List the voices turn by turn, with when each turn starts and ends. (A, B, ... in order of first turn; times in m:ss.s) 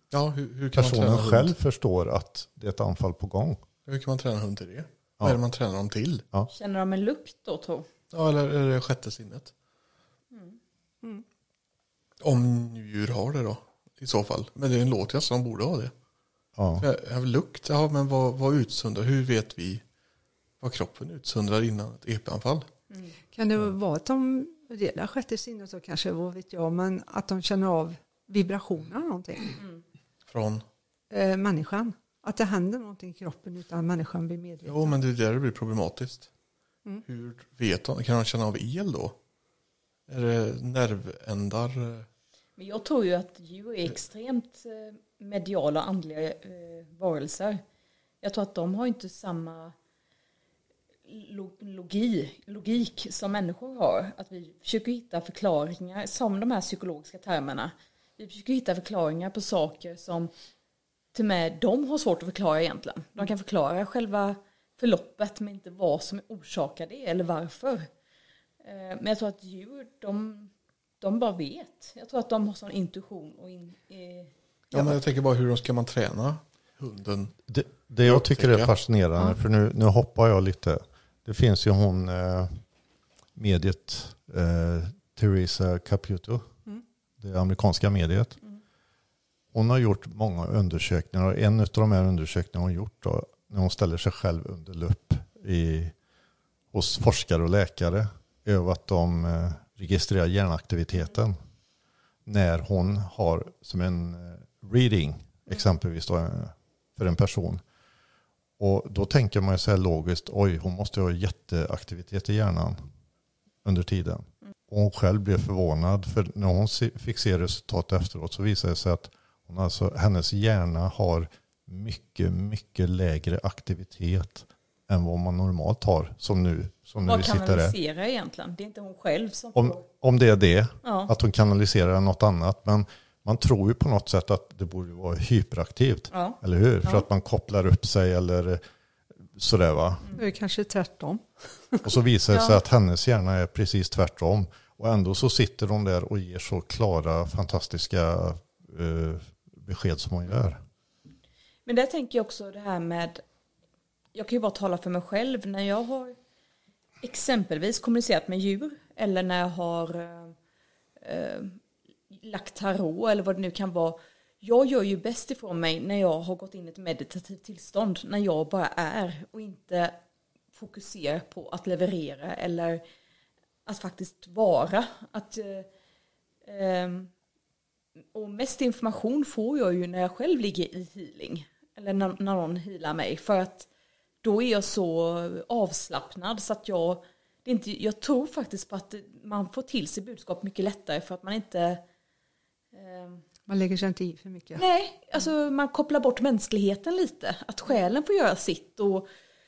0:00.1-0:01.5 A
0:00.8-0:03.6 B
0:03.9-0:06.3 A
0:06.5-0:07.9 C
0:08.1-0:09.5 A
0:12.2-0:15.9 A
0:16.6-0:16.9 B
0:16.8-0:19.8 A
0:20.6-0:22.7 A
0:23.3-0:29.6 D
0:30.3-0:30.6 A
0:31.1-0:35.0 D
0:34.7-0:36.3 A
0:37.0-0:39.2 A
0:40.1-0:42.1 A
0:42.6-0:47.6 C
0:48.2-0:49.8 C
0:51.1-1:00.3 C
1:01.1-1:07.9 C
1:08.6-1:14.3 C
1:14.7-1:17.4 A
1:17.5-1:22.5 B
1:18.0-1:18.7 A
1:23.4-1:26.5 B
1:27.2-1:28.4 B
1:29.5-1:35.9 B
1:36.7-1:41.4 B
1:42.3-1:47.6 B
1:48.6-1:52.8 B
1:53.6-2:07.7 B
2:07.0-2:09.8 C
2:09.6-2:18.6 B
2:10.8-2:11.1 C
2:16.1-2:17.0 C
2:19.1-2:20.2 B
2:20.2-2:21.9 D
2:21.8-2:30.6 B
2:22.3-2:22.6 C
2:31.7-2:33.2 C
2:34.1-2:36.2 C
2:37.0-2:40.4 C
2:41.0-2:50.0 C
2:50.5-2:52.8 C
2:53.7-2:55.7 C
2:56.4-2:57.1 C
2:58.1-3:03.7 C
3:04.2-3:11.8 C
3:12.7-3:13.2 C
3:13.5-3:14.6 D
3:14.6-3:19.1 C